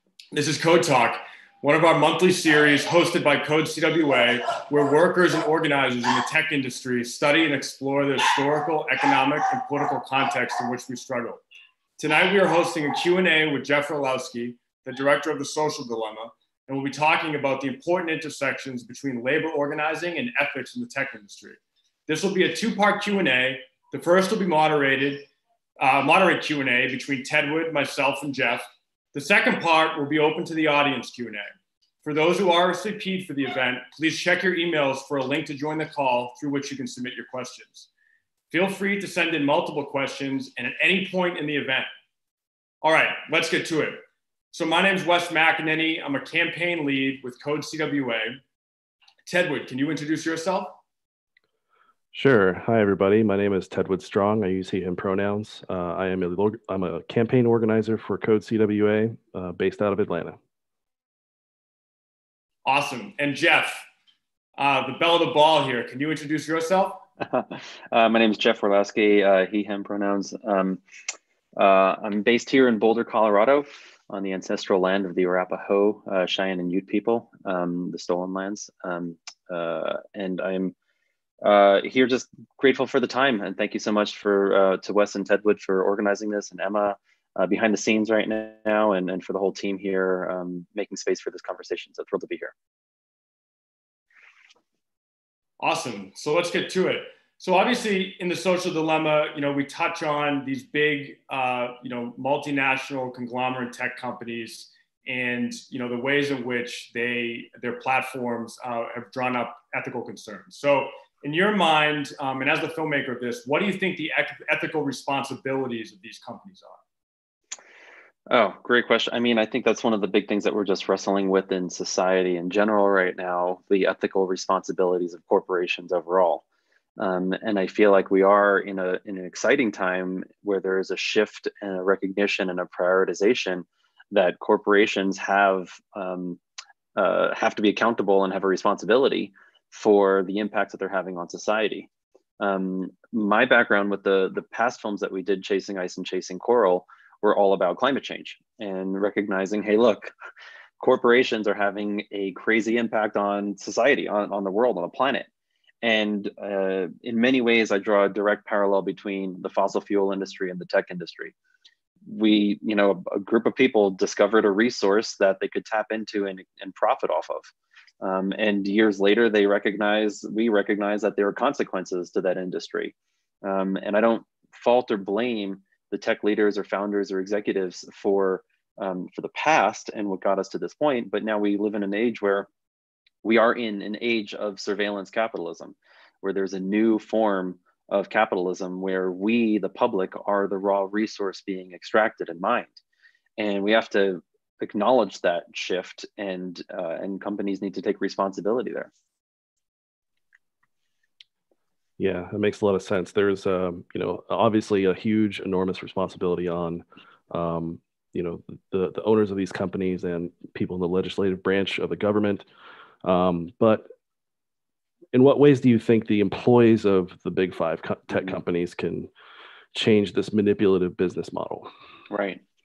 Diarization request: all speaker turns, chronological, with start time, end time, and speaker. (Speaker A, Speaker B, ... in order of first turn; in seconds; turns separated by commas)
Speaker A: 0.3-11.4, Speaker A: 12.0-31.5, Speaker A: 32.0-37.9, Speaker A: 38.5-41.9, Speaker A: 42.8-44.0, Speaker A: 44.5-48.4, Speaker A: 49.3-50.8, Speaker B: 52.1-60.4, Speaker A: 62.6-63.8, Speaker A: 64.6-67.0, Speaker C: 67.2-70.8, Speaker C: 71.6-80.7, Speaker C: 81.4-92.5, Speaker A: 95.6-116.8, Speaker C: 118.3-126.4, Speaker C: 127.0-136.4, Speaker C: 136.9-150.1, Speaker C: 150.8-155.3, Speaker C: 155.8-161.3, Speaker C: 162.0-182.5, Speaker C: 183.2-192.8, Speaker C: 193.4-198.9, Speaker B: 202.0-212.5, Speaker B: 213.0-213.9, Speaker B: 215.1-219.1, Speaker C: 218.1-218.4, Speaker B: 219.7-221.7, Speaker C: 222.1-222.4